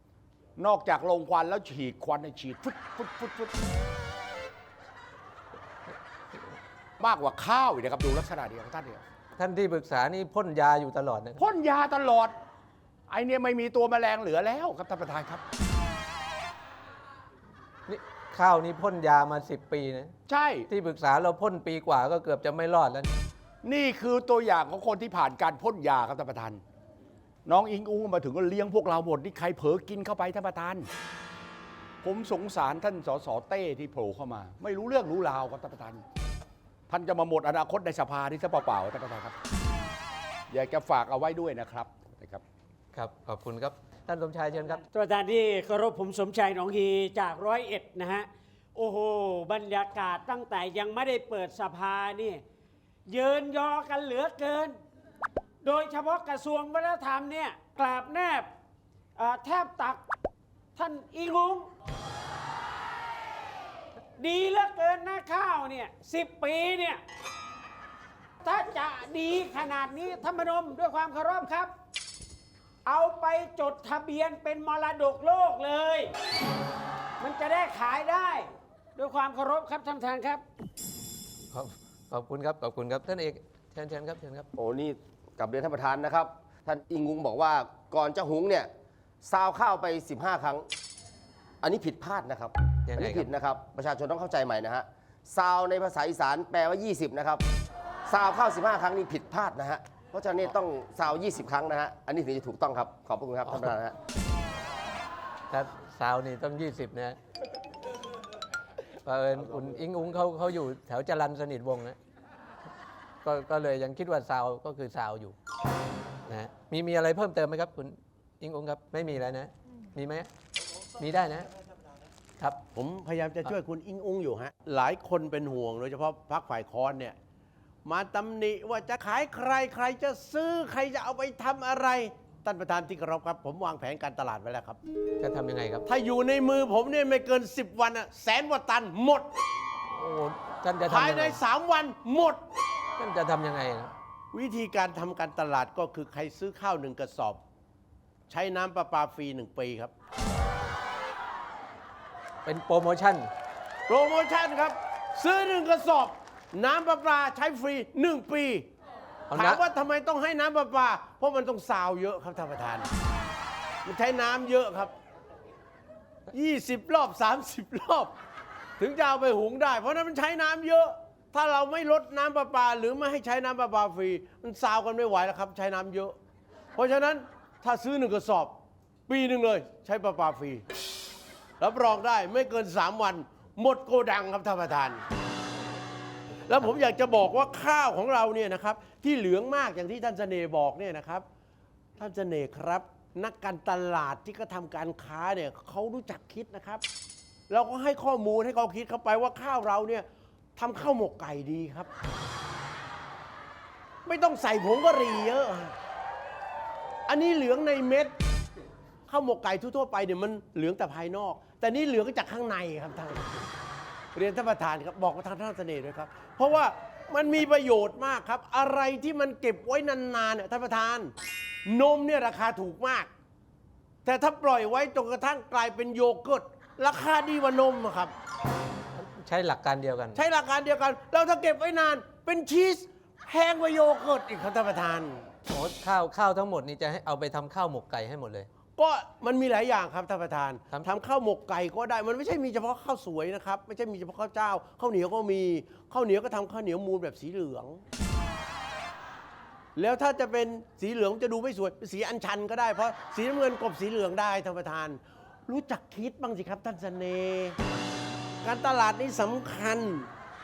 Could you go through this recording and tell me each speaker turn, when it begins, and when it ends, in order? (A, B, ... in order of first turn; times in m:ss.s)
0:00.6-0:03.5 A
0:07.0-0:09.0 A
0:09.4-0:11.4 B
0:11.4-0:12.4 A
0:13.1-0:15.4 A
0:17.9-0:20.1 B
0:20.3-0:20.7 A
0:20.7-0:23.1 B
0:23.6-0:26.6 A
0:27.4-0:30.9 A
0:32.0-0:36.0 A
0:36.9-0:39.3 A
0:40.5-0:42.4 A
0:42.9-0:44.8 B
0:44.9-0:52.4 C
0:53.1-0:54.8 C
0:55.6-0:58.5 C
0:59.2-1:00.0 C
1:00.8-1:01.7 C
1:04.2-1:07.0 C
1:08.4-1:11.7 C
1:12.8-1:16.1 C
1:17.2-1:20.4 C
1:21.5-1:24.5 B
1:24.6-1:28.7 D
1:29.2-1:30.7 D
1:31.6-1:37.4 D
1:32.9-1:33.3 B
1:38.0-1:43.9 D
1:43.5-1:43.7 B
1:45.5-1:47.2 B
1:49.0-1:52.0 B
1:53.2-1:55.3 B
1:56.2-2:00.3 B
2:01.0-2:01.5 B
2:02.7-2:07.2 E
2:07.8-2:14.8 E
2:15.2-2:15.8 B
2:15.8-2:19.3 E
2:19.9-2:21.4 B
2:20.8-2:22.4 E
2:23.0-2:23.9 B
2:24.3-2:27.4 E
2:28.3-2:29.9 E
2:32.4-2:33.3 B
2:33.9-2:38.7 E
2:39.3-2:39.6 B
2:39.3-2:42.9 E
2:43.8-2:44.9 E
2:46.3-2:48.1 E
2:48.8-2:56.2 E
2:56.8-2:58.6 E
2:59.1-3:00.6 E
3:01.6-3:05.0 E
3:06.5-3:11.2 E
3:12.0-3:16.8 E
3:17.5-3:20.0 E
3:20.6-3:21.9 E
3:24.0-3:25.7 E
3:27.1-3:28.1 E
3:29.1-3:33.4 E
3:34.1-3:41.1 E
3:41.6-3:43.1 E
3:44.0-3:48.1 E
3:49.0-3:50.2 B
3:50.1-3:55.3 E
3:55.5-3:58.5 B
3:58.8-4:07.8 E
4:09.8-4:17.6 E
4:18.4-4:20.1 E